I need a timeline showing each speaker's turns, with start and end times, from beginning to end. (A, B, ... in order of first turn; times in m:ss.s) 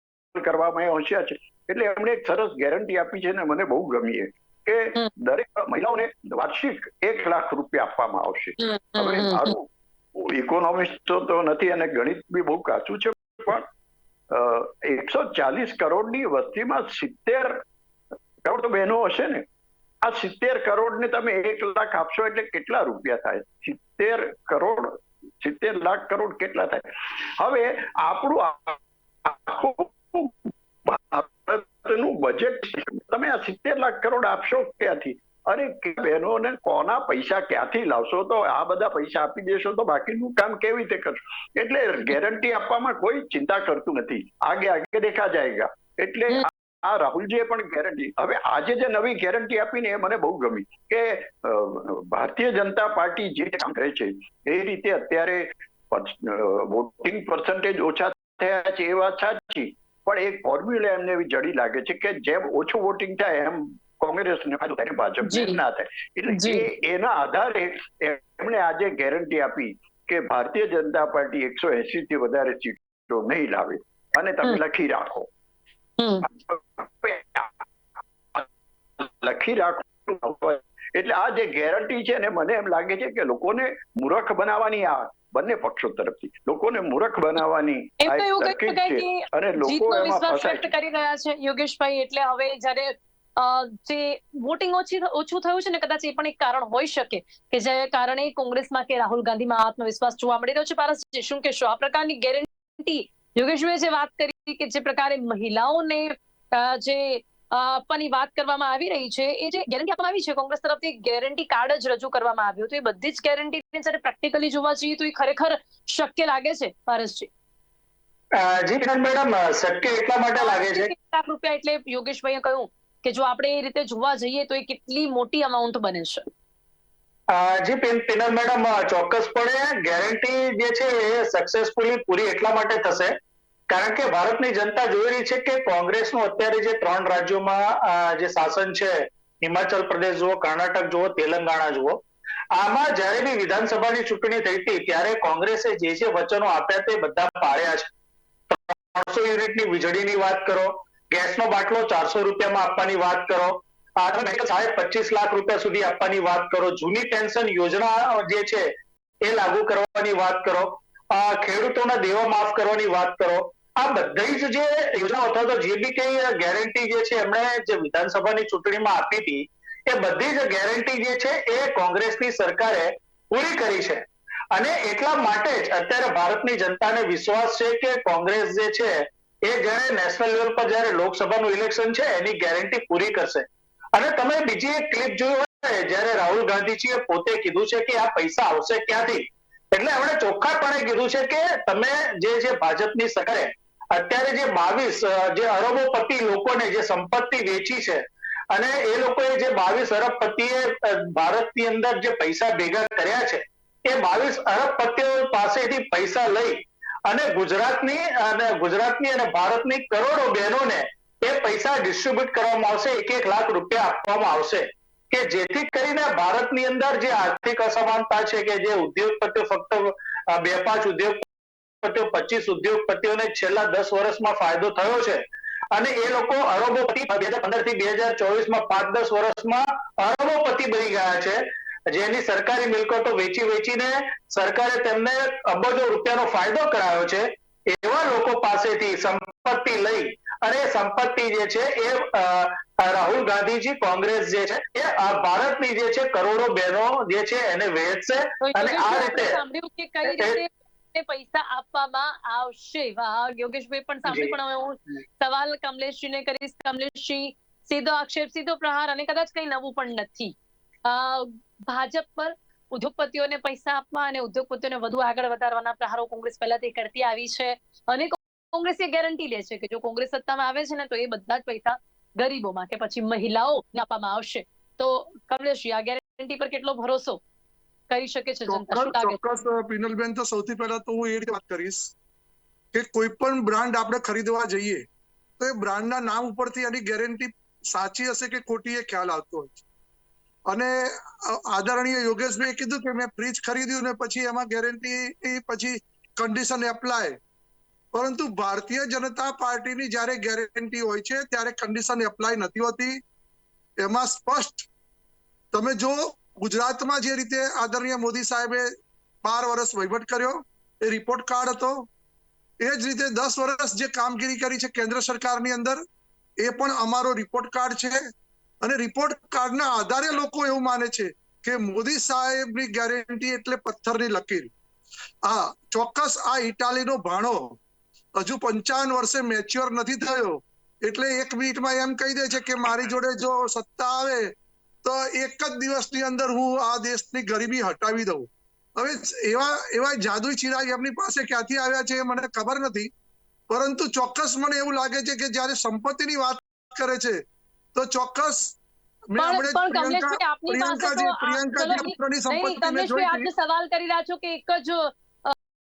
0:00.3-0:13.7 A
0:08.6-0:09.5 B
0:14.3-0:17.6 A
0:18.4-0:19.4 A
0:20.0-1:15.3 A
1:05.2-1:05.6 B
1:06.3-1:06.6 B
1:16.0-1:16.2 B
1:16.3-1:17.6 A
1:19.0-1:30.7 A
1:28.0-1:57.3 B
1:58.4-2:00.9 C
2:00.4-2:06.3 B
2:07.3-2:13.1 C
2:13.7-2:22.0 C
2:22.5-2:27.9 C
2:28.5-2:38.7 C
2:39.2-3:41.2 C
3:41.8-3:51.4 C
3:51.9-4:09.4 C
4:08.4-4:20.3 B
4:10.1-4:10.4 C
4:14.1-4:14.3 C
4:20.8-4:37.2 B
4:37.9-4:39.2 B
4:38.5-4:41.9 D
4:42.7-4:44.8 D
4:45.4-4:49.6 D
4:50.5-4:57.2 D
4:57.9-5:03.0 D
5:03.8-5:04.7 D
5:05.5-5:08.7 D
5:09.2-5:11.9 D
5:12.6-5:15.8 D
5:16.4-5:18.1 D
5:18.6-5:24.5 D
5:25.2-5:27.6 D
5:28.2-5:34.3 D
5:34.8-5:42.9 D
5:43.5-5:47.2 D
5:47.7-5:48.6 D
5:49.1-5:53.3 D
5:49.2-5:55.4 B